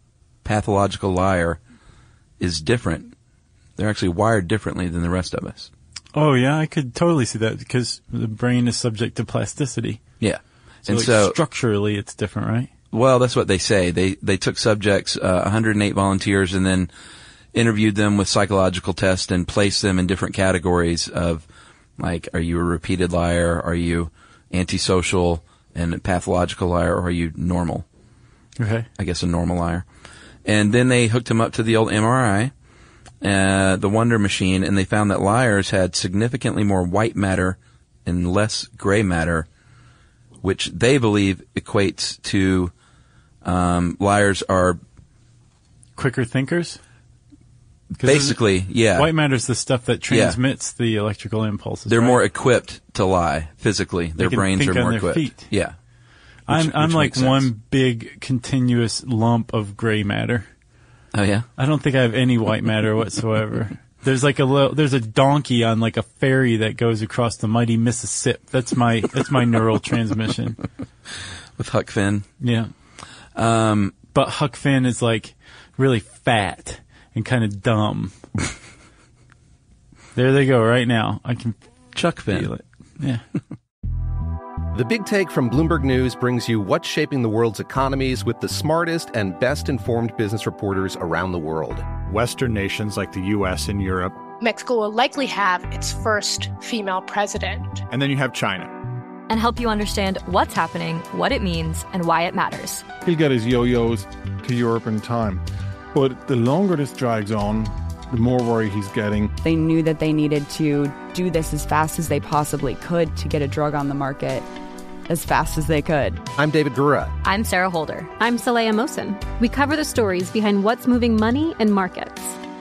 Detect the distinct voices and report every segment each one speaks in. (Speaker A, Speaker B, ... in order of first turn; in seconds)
Speaker A: 0.4-1.6, 2.4-3.1, 3.8-5.7, 10.2-11.4, 12.9-16.9, 17.5-21.4, 22.0-27.9, 29.0-29.9, 30.4-32.5, 33.2-39.5, 40.4-42.7, 43.4-44.8, 48.0-49.1, 50.1-50.4, 51.9-55.8, 56.5-57.5, 61.1-61.5, 71.6-72.3, 73.3-74.0, 81.9-82.5
Speaker B: 6.2-10.0, 10.9-12.7, 28.6-28.9, 46.0-46.8, 48.0-52.2, 54.2-55.5, 56.5-60.5, 61.6-70.6, 72.4-72.7, 74.1-78.2, 80.2-81.6, 82.3-83.2
Speaker C: 84.7-91.9, 116.4-117.1
Speaker D: 92.0-94.2, 97.9-98.7
Speaker E: 94.4-97.9
Speaker F: 99.3-102.8, 117.2-118.1
Speaker G: 103.0-109.3
Speaker H: 109.4-114.5, 115.1-116.2
Speaker I: 118.2-122.4